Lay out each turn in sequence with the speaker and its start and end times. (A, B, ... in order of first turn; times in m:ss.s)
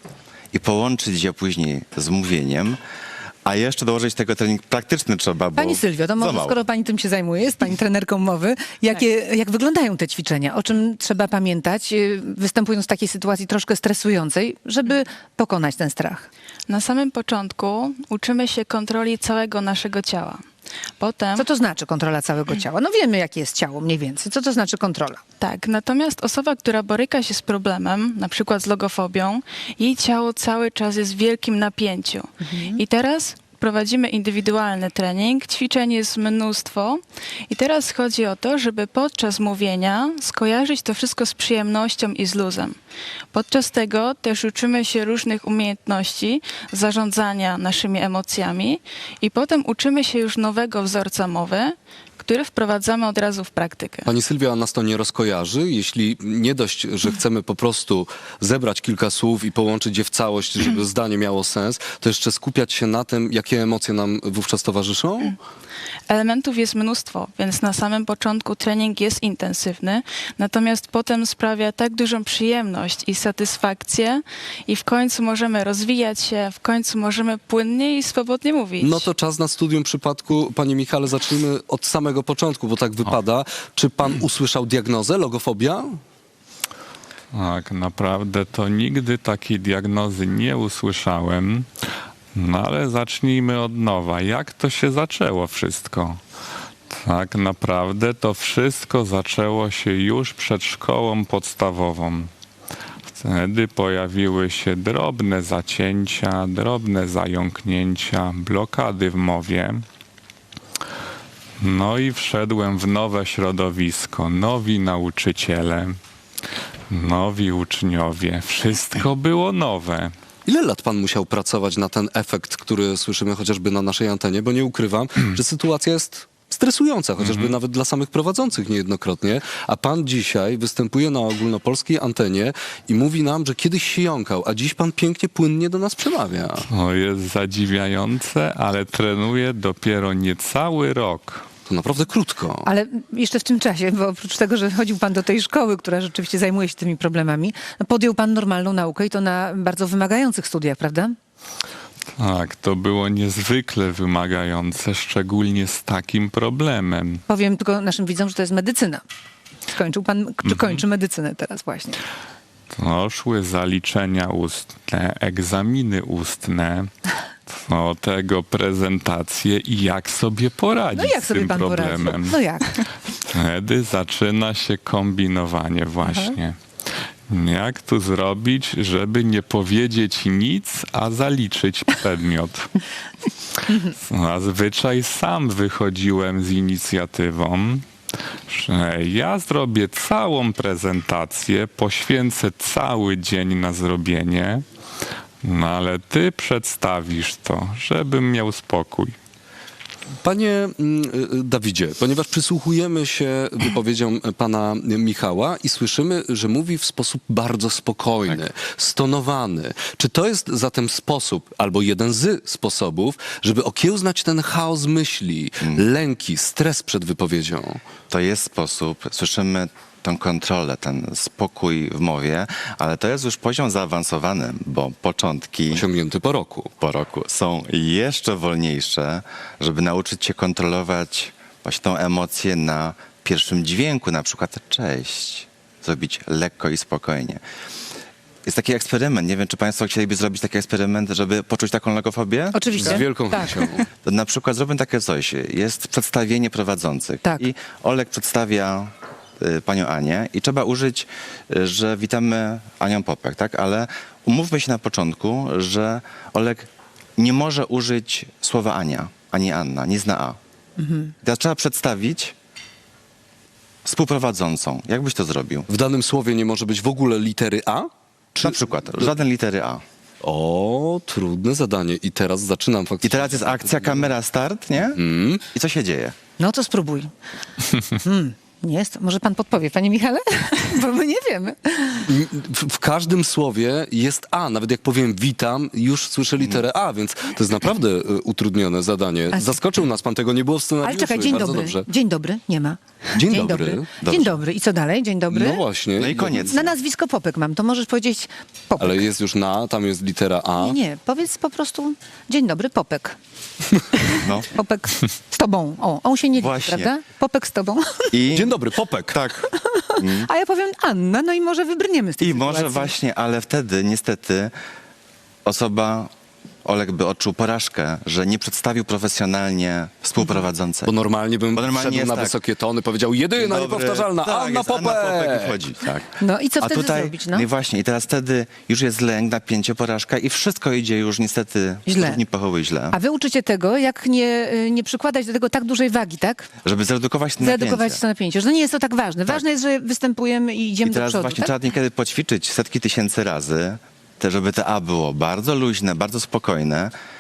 0:00.5-0:02.8 A
0:03.4-0:06.6 A
0:05.6-0:16.3 B
0:16.7-0:20.4 C
0:21.0-0:21.4 C
0:21.4-0:25.2 B
0:25.4-0:42.8 C
0:32.4-0:32.8 B
0:43.3-0:54.1 C
0:54.0-1:05.4 D
1:06.1-1:19.1 C
1:18.8-1:26.0 D
1:27.3-1:31.7 E
1:32.3-1:36.2 E
1:36.9-1:42.3 E
1:43.1-1:49.8 E
1:51.6-1:56.0 E
1:56.9-2:00.1 E
2:00.4-2:16.6 D
2:07.2-2:07.5 E
2:16.7-2:21.4 E
2:21.7-2:22.7 D
2:22.6-2:31.1 B
2:32.2-2:37.2 E
2:37.3-2:39.0 B
2:39.7-2:42.0 B
2:40.4-2:40.8 E
2:42.7-2:46.9 E
2:47.5-2:52.4 E
2:50.9-2:52.8 B
2:53.3-2:56.6 E
2:56.0-2:56.3 B
2:57.3-3:02.7 E
3:04.0-3:07.8 E
3:08.5-3:14.6 E
3:15.4-3:19.2 E
3:20.2-3:37.8 D
3:38.1-3:45.9 A
3:45.7-3:46.7 D
3:46.8-3:57.4 A
3:58.4-4:02.9 A
4:02.5-4:03.6 B
4:02.8-4:03.8 D
4:04.0-4:20.4 A
4:20.8-4:21.1 B
4:21.2-4:22.3 A
4:23.8-4:25.7 A
4:25.7-4:29.1 D
4:28.4-4:29.8 A
4:30.2-4:34.1 D
4:33.0-4:36.2 A
4:34.9-4:35.4 D
4:36.4-4:37.1 B
4:38.0-4:42.1 B
4:42.0-4:51.9 D
4:50.8-4:55.6 B
4:53.1-4:53.9 D
4:54.0-4:54.4 A
4:55.3-4:56.6 D
4:56.0-4:56.7 A
4:56.5-4:59.0 B
4:58.8-5:00.8 D
5:00.6-5:03.2 B
5:04.1-5:04.5 A
5:04.5-5:08.1 B
5:06.4-5:06.9 A
5:08.1-5:10.3 A
5:08.3-5:09.2 D
5:09.6-5:12.9 B
5:12.2-5:14.5 A
5:15.4-5:16.1 A
5:16.6-5:20.9 A
5:20.8-5:25.5 D
5:21.5-5:22.4 A
5:23.4-5:33.0 A
5:26.2-5:27.4 B
5:31.9-5:32.2 B
5:32.9-5:36.5 B
5:36.6-5:38.0 A
5:37.4-5:41.5 B
5:40.8-5:46.9 A